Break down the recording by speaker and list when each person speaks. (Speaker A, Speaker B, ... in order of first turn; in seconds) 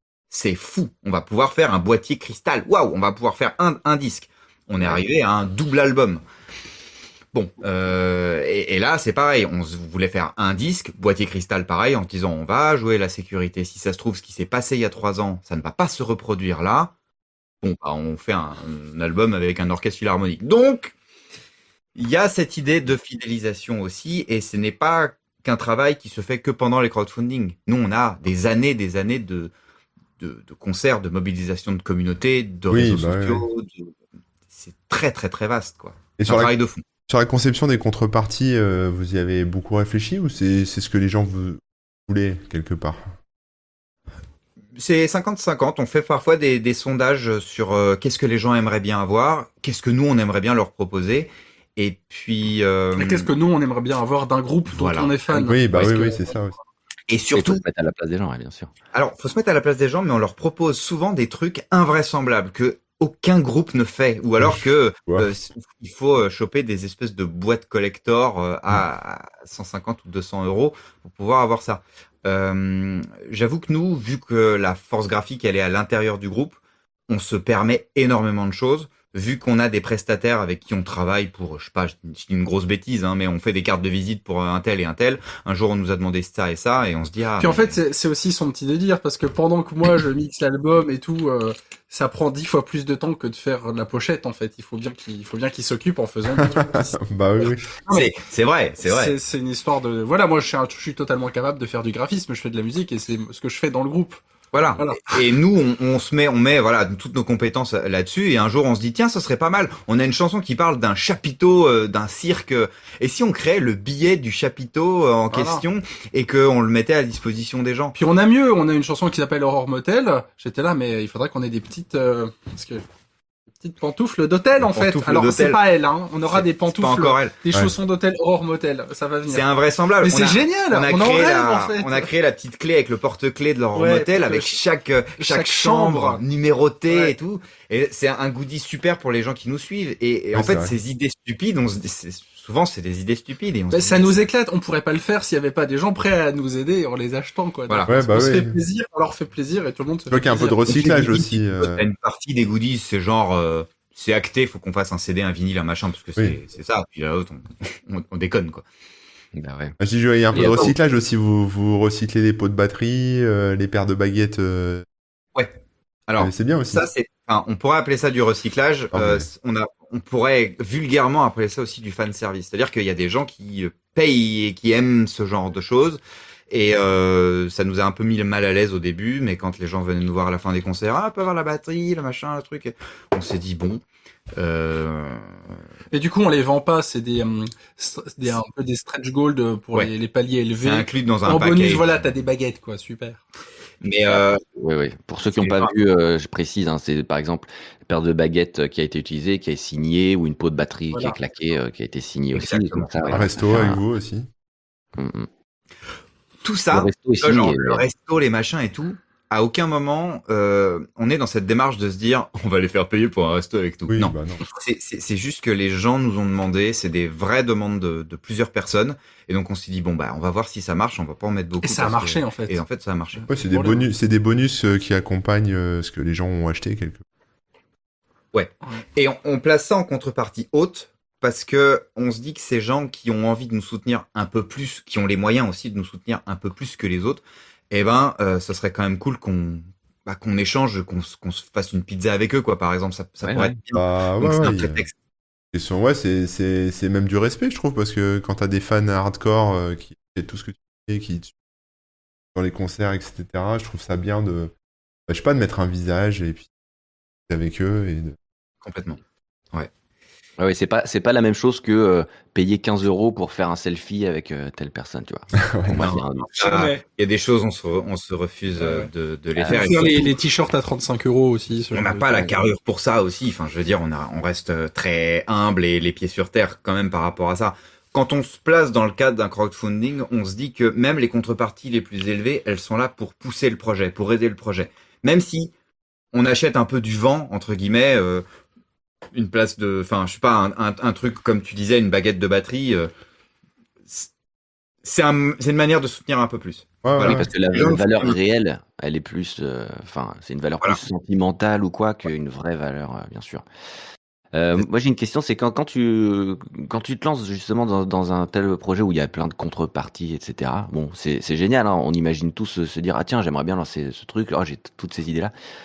Speaker A: 0.3-6.2, 7.3-16.9, 17.6-20.9, 22.0-29.5, 30.2-34.0, 34.5-36.8, 44.8-53.3, 54.7-55.1, 57.1-57.6, 58.9-87.8, 97.9-99.1, 104.5-118.0, 124.6-125.6, 126.3-127.3, 129.3-144.3, 150.7-158.6, 160.4-160.7, 166.1-183.8, 184.4-185.4, 190.6-191.9, 193.8-194.4, 195.4-195.7, 202.3-203.2, 206.4-223.3, 228.3-244.9, 258.6-259.0, 265.8-270.1, 271.7-285.5, 286.1-288.2, 289.1-292.9, 294.8-298.2
Speaker B: 32.7-33.5, 36.2-36.5, 37.1-43.1, 55.3-56.5, 64.4-65.3, 96.4-97.7, 140.3-140.8, 147.9-148.6, 150.1-151.8, 159.8-164.8, 166.2-166.9, 168.9-169.3, 203.1-204.3, 213.9-214.4, 223.3-227.0, 243.7-244.8, 245.5-251.3, 252.3-254.5, 255.1-256.5, 257.3-258.2, 265.4-265.9, 296.8-297.3
Speaker C: 53.0-56.4, 87.4-98.1, 98.8-104.2, 104.8-105.2, 115.3-115.6, 118.0-122.8, 123.6-129.4, 130.0-132.1, 133.7-134.6, 135.2-136.2, 136.9-137.1, 143.7-151.2, 185.9-193.2, 200.9-201.2, 221.6-222.6, 223.1-223.9, 266.4-266.8, 268.6-268.9, 269.5-272.3
Speaker D: 57.3-58.7, 159.4-159.8, 160.3-160.7, 194.1-203.8, 205.0-205.3, 206.7-207.8, 243.3-243.6, 260.4-266.6, 269.4-269.7, 297.0-303.4, 304.3-315.3